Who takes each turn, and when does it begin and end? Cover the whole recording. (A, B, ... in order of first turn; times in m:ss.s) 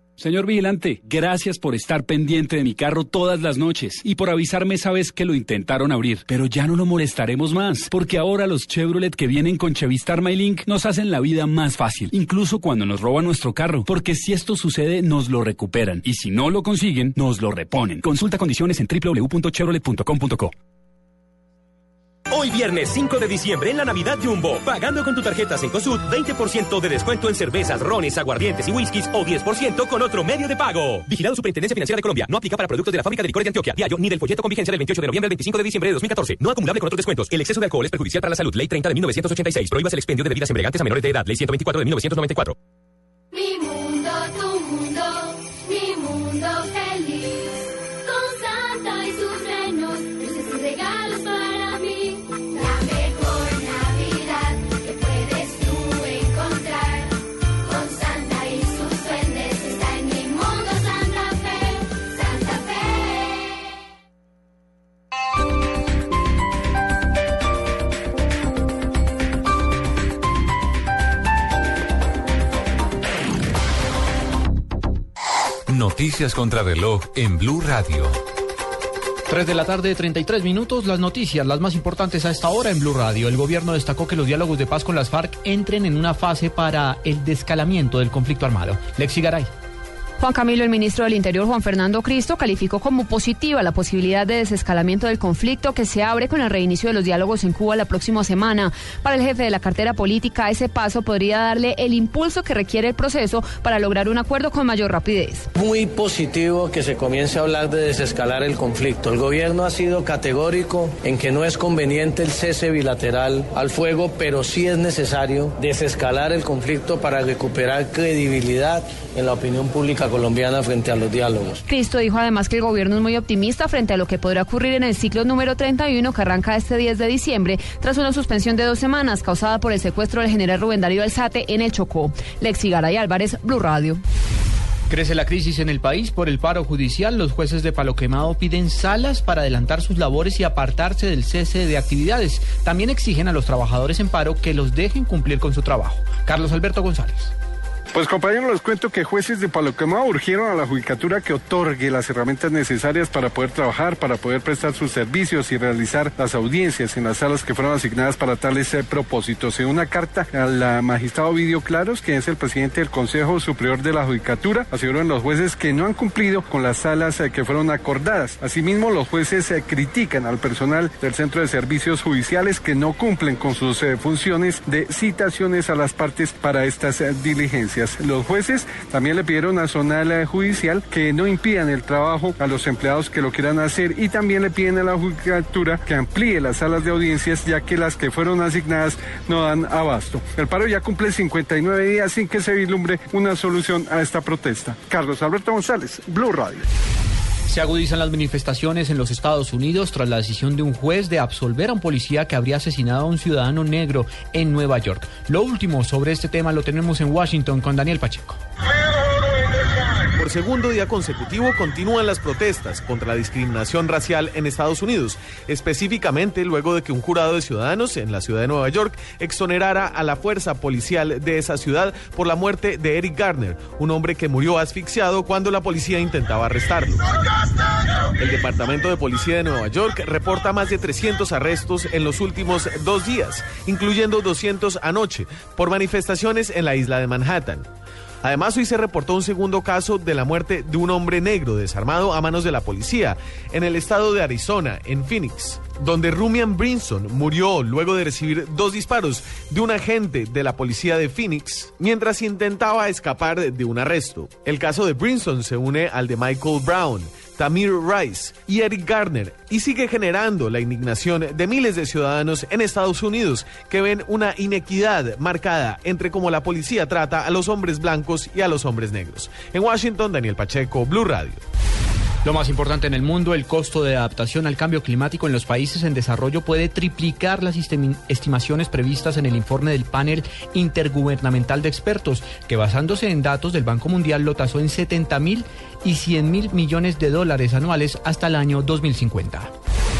0:00.2-0:20.5 A
0:22.3-0:42.5 B
1:15.7-1:18.2 C
1:19.3-1:29.5 D
1:30.2-1:45.4 E
1:45.6-2:01.6 F
2:01.7-2:14.0 E
2:14.9-2:27.3 D
2:27.9-3:16.6 G
3:17.5-3:28.4 D
3:30.2-3:47.0 H
3:48.2-3:57.7 H
3:58.2-4:31.4 H
4:34.4-4:49.5 D